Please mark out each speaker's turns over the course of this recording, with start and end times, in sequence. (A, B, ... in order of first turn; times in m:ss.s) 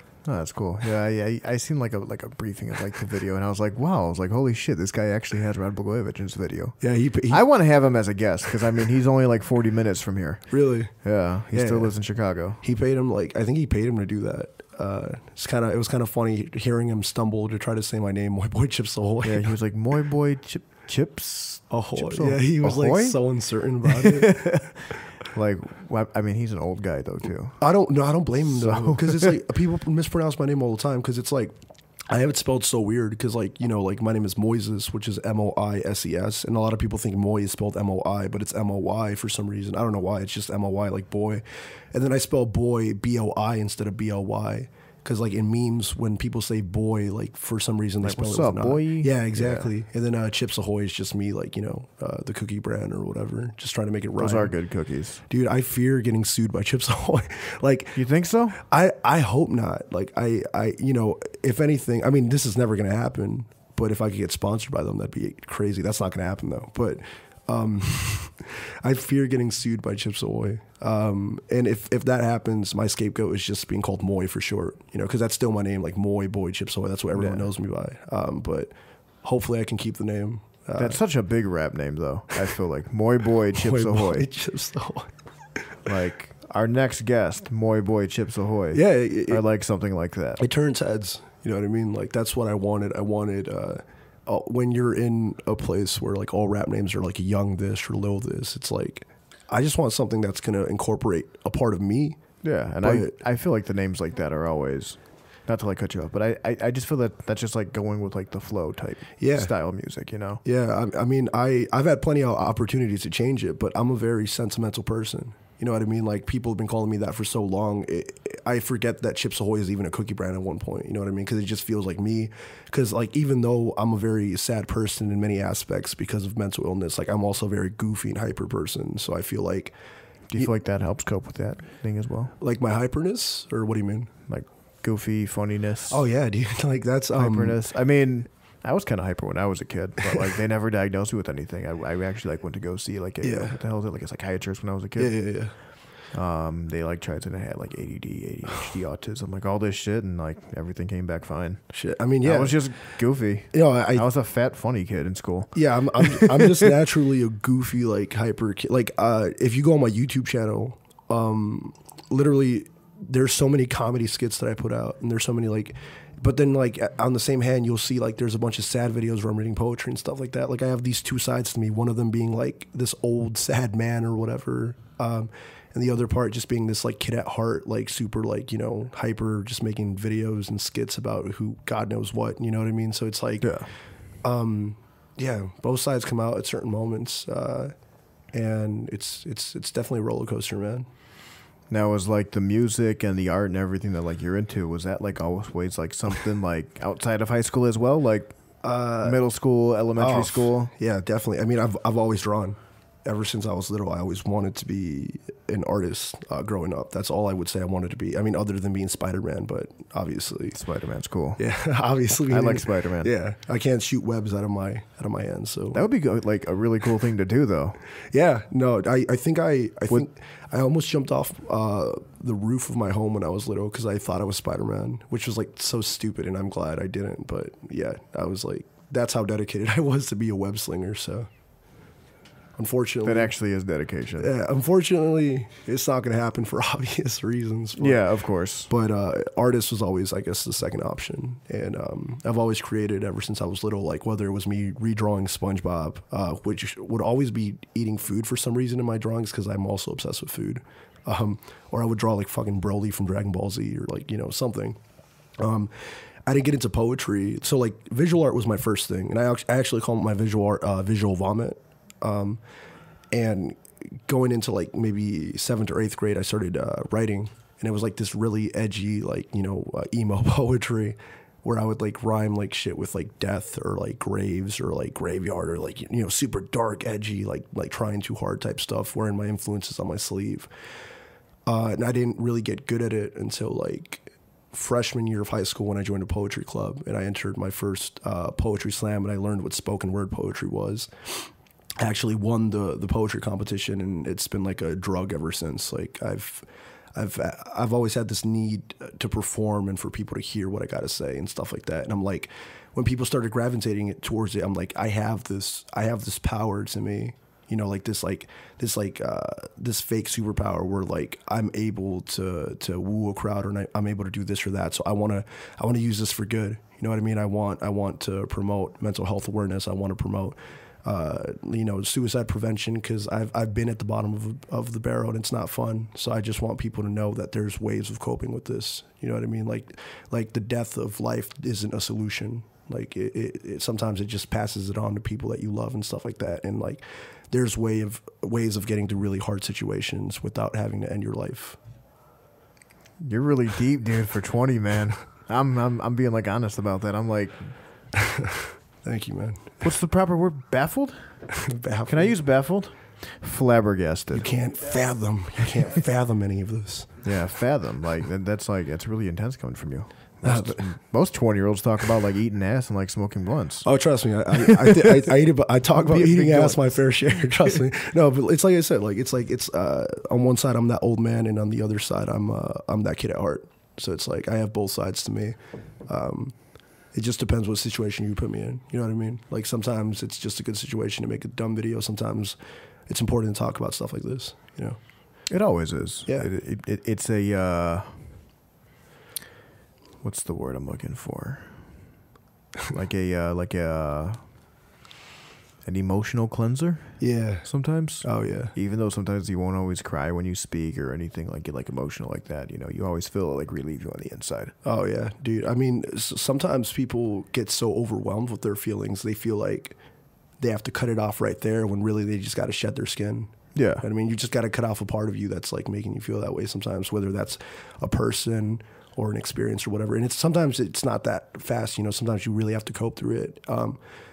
0:00.2-0:06.8 A
0:06.8-0:07.4 B
0:07.3-0:10.5 A
0:10.5-0:10.9 B
0:11.0-0:12.6 A
0:11.5-0:12.0 B
0:12.6-0:19.5 B
0:19.2-0:23.2 A
0:21.7-0:24.5 B
0:23.8-0:27.6 A
0:27.6-0:31.5 B
0:28.6-0:29.3 A
0:32.1-0:54.5 B
0:48.0-0:49.7 A
0:54.2-0:55.2 A
0:55.3-0:58.0 B
0:58.0-0:58.6 A
0:58.6-1:21.0 B
1:17.2-1:17.4 A
1:20.8-1:24.3 A
1:23.5-1:25.1 B
1:25.8-1:30.4 A
1:28.7-1:29.4 B
1:30.4-1:42.2 B
1:42.4-1:50.4 A
1:42.8-1:43.2 B
1:49.2-1:49.5 B
1:50.4-2:09.7 B
2:10.3-2:12.3 A
2:12.4-2:14.1 B
2:14.3-2:16.0 A
2:15.9-2:17.6 B
2:17.2-2:25.1 A
2:23.2-2:23.6 B
2:25.0-2:25.5 B
2:26.1-2:31.6 A
2:31.7-2:32.6 B
2:32.2-2:36.4 A
2:33.5-2:34.1 B
2:35.5-3:03.5 B
3:03.4-3:03.7 A
3:04.2-3:07.7 B
3:08.3-3:10.9 B
3:11.7-3:18.4 A
3:18.6-3:19.2 B
3:19.0-3:20.7 A
3:20.0-3:30.6 B
3:30.5-3:31.4 A
3:31.4-3:35.9 B
3:32.3-3:33.1 A
3:35.7-3:37.8 A
3:38.1-3:51.3 B
3:52.6-3:53.3 B
3:53.0-3:54.3 A
3:54.2-3:58.0 B
3:57.8-3:58.7 A
3:58.7-4:14.8 B
4:15.4-4:15.7 B
4:16.2-4:22.4 B
4:23.1-4:40.5 B
4:41.5-4:51.3 B
4:51.8-5:41.6 B
5:43.0-5:47.5 A
5:47.9-5:49.5 B
5:49.6-5:51.1 A
5:51.4-5:52.2 B
5:51.9-5:54.3 A
5:54.1-5:56.9 B
5:57.0-6:03.7 A
6:00.2-6:00.7 B
6:03.6-6:16.3 B
6:04.4-6:05.1 A
6:05.8-6:06.8 A
6:16.9-6:22.4 B
6:22.9-6:24.8 B
6:25.3-6:28.0 A
6:30.0-6:31.6 A
6:32.7-6:34.2 A
6:35.6-6:44.5 A
6:37.0-6:37.5 B
6:38.0-6:38.5 B
6:44.6-6:49.8 B
6:50.4-7:03.8 B
6:53.5-6:53.8 A